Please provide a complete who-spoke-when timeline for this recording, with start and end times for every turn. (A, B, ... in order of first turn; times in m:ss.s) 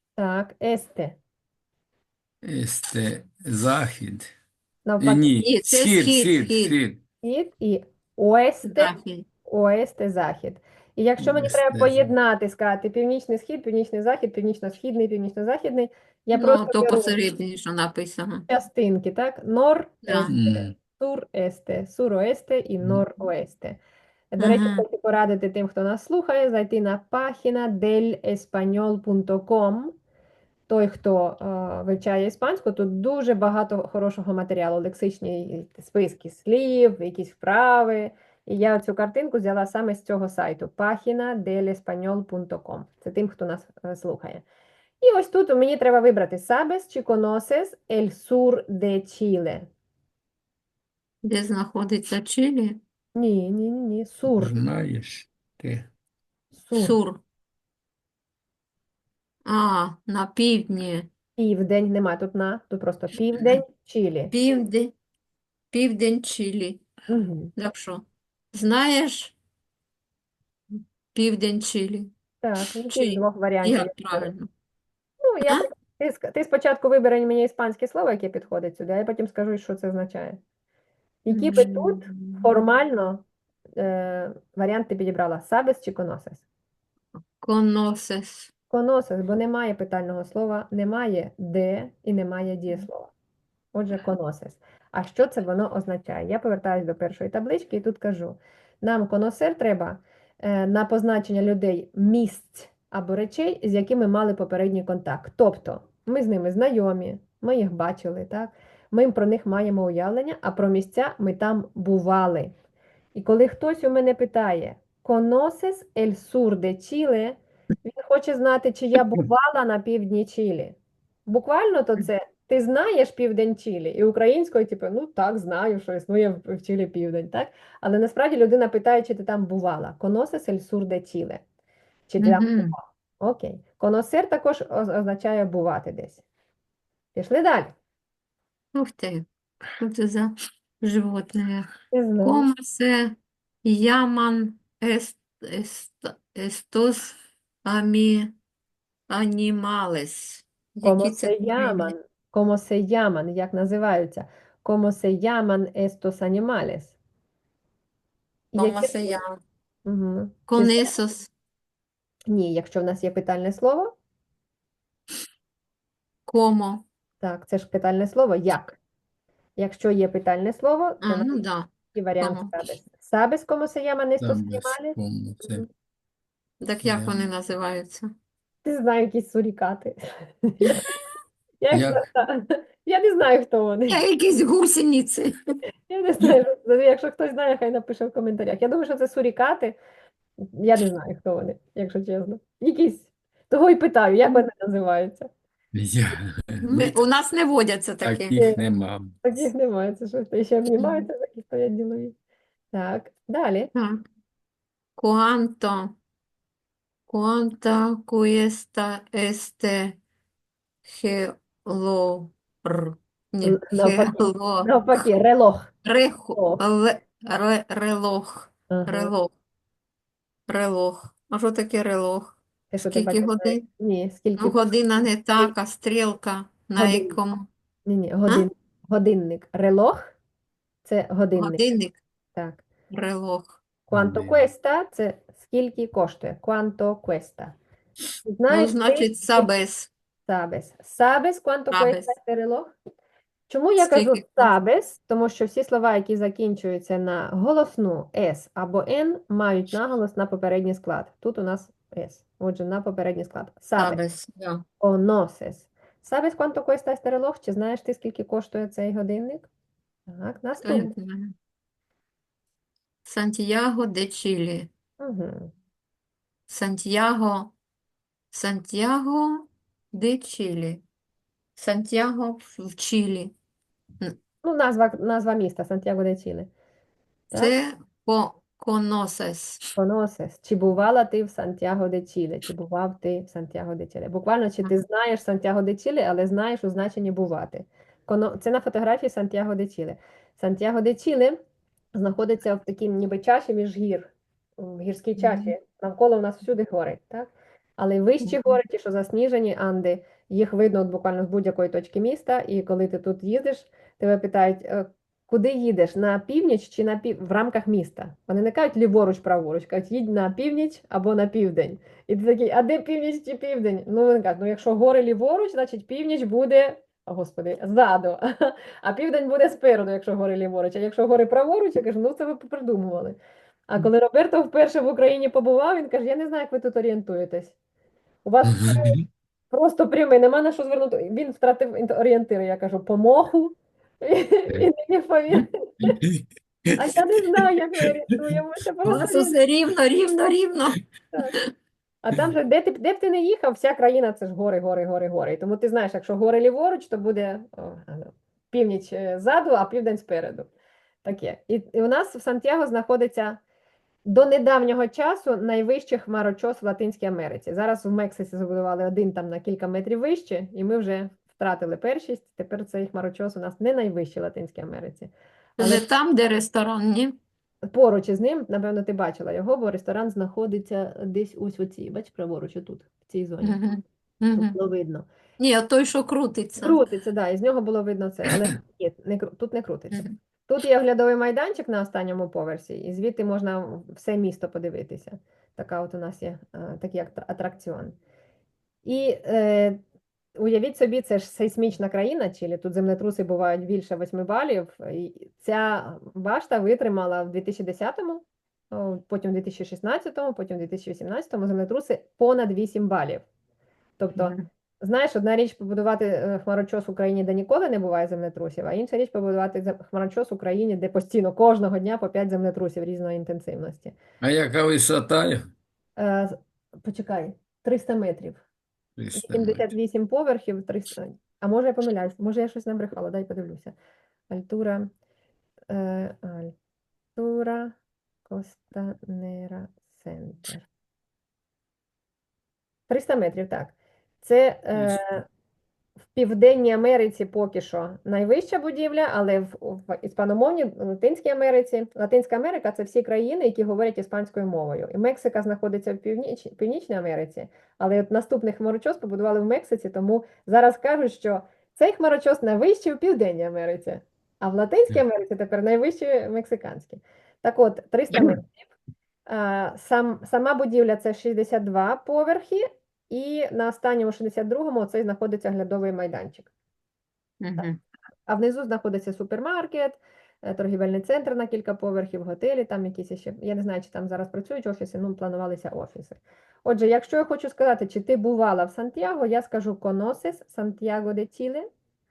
0:00.2-0:01.2 A
0:02.4-0:04.3 B
0:04.9-0:05.3 A
0:05.0-0:07.0 B
0:05.4-0:06.8 C
0:07.2-0:08.9 A
0:08.7-0:09.3 C
0:09.4-0:17.2 A
0:11.2-0:12.1 B
0:16.3-0:18.5 C
0:18.5-0:23.8 A
0:20.0-0:20.3 C
0:20.3-0:20.8 B
0:24.3-0:29.9 A
0:24.4-0:24.8 C
0:30.7-0:44.4 A
0:45.0-0:49.7 A
0:51.2-0:52.8 C
0:53.2-0:54.6 A
0:54.3-0:55.9 B
0:56.6-0:57.0 A
0:56.8-0:57.2 C
0:59.4-1:01.1 C
1:01.4-1:04.3 A
1:04.3-1:04.9 C
1:05.7-1:06.8 C
1:07.1-1:07.5 A
1:07.6-1:09.4 C
1:11.1-1:12.1 C
1:12.4-1:14.3 A
1:12.9-1:14.5 C
1:15.2-1:20.4 A
1:21.3-1:23.2 A
1:21.3-1:22.5 C
1:23.8-1:26.4 A
1:27.4-1:28.5 C
1:28.7-1:33.1 A
1:33.7-1:52.5 A
1:53.2-2:11.4 A
2:12.1-2:16.2 A
2:12.2-2:12.8 C
2:17.2-2:17.7 A
2:18.7-2:19.3 C
2:19.8-2:21.7 C
2:21.9-2:22.5 A
2:22.2-2:28.4 C
2:29.1-2:31.9 C
2:30.8-2:37.0 A
2:38.5-2:39.2 A
2:38.6-2:39.4 C
2:39.8-2:40.9 A
2:40.5-2:41.3 C
2:42.3-2:44.0 A
2:46.3-2:46.9 C
2:47.2-2:48.8 A
2:49.6-2:55.7 A
2:51.0-2:52.6 C
2:54.2-2:55.6 B
2:56.6-2:58.1 C
2:56.8-2:57.3 B
2:58.6-3:00.8 A
3:01.6-3:04.0 A
3:01.7-3:02.0 B
3:03.9-3:05.6 C
3:05.9-3:09.8 A
3:10.4-3:15.3 A
3:15.7-3:17.0 B
3:16.6-3:18.4 C
3:18.0-3:19.2 B
3:18.4-3:18.6 A
3:19.2-3:22.2 A
3:22.7-3:23.7 A
3:23.7-3:24.0 C
3:25.0-3:26.0 C
3:27.1-3:30.0 C
3:30.8-3:35.0 C
3:33.4-3:35.7 A
3:35.8-3:39.3 C
3:36.4-3:36.6 A
3:38.7-3:39.1 A
3:40.5-3:43.6 C
3:42.7-3:44.7 A
3:44.4-3:47.5 C
3:46.8-3:47.2 A
3:47.9-3:50.0 A
3:50.8-3:51.6 A
3:51.4-3:52.0 C
3:52.4-3:52.6 A
3:52.9-3:53.6 C
3:53.9-3:57.6 A
3:53.9-3:54.5 B
3:58.2-3:59.5 A
3:58.5-3:59.9 C
4:00.3-4:02.7 A
4:01.7-4:02.1 C
4:03.5-4:14.0 A
4:03.8-4:04.5 C
4:13.8-4:14.6 C
4:14.8-4:19.5 A
4:20.1-4:20.9 A
4:20.6-4:21.3 C
4:23.0-4:24.7 C
4:25.0-4:25.5 A
4:26.5-4:27.5 C
4:28.3-4:30.8 C
4:31.6-4:33.3 C
4:34.4-4:36.5 A
4:37.3-4:39.7 C
4:39.8-4:51.4 A
4:52.0-5:27.6 A
4:55.2-4:55.5 C
4:58.3-4:58.5 C
5:28.2-5:29.0 A
5:28.5-5:29.0 B
5:29.5-5:36.0 A
5:35.8-5:36.7 B
5:36.8-5:39.4 A
5:38.9-5:41.5 C
5:42.0-5:50.5 A
5:51.0-5:53.4 A
5:54.0-6:05.8 A
6:05.6-6:07.2 C
6:07.7-6:13.6 A
6:13.4-6:14.6 C
6:14.4-6:15.1 A
6:15.4-6:16.8 C
6:16.6-6:28.0 A
6:28.8-6:29.8 A
6:30.4-6:43.2 A
6:44.0-6:54.0 A
6:44.2-6:44.4 C
6:54.2-6:55.5 B
6:56.0-6:58.4 A
6:59.0-6:59.7 B
6:59.1-7:03.8 A
7:04.3-7:04.9 A
7:05.7-7:06.6 A
7:07.2-7:07.7 A
7:08.3-7:10.7 A
7:12.9-7:15.2 A
7:16.1-7:38.6 A
7:38.1-7:38.4 C
7:39.3-7:46.5 A
7:47.4-7:47.8 C
7:48.3-8:01.7 A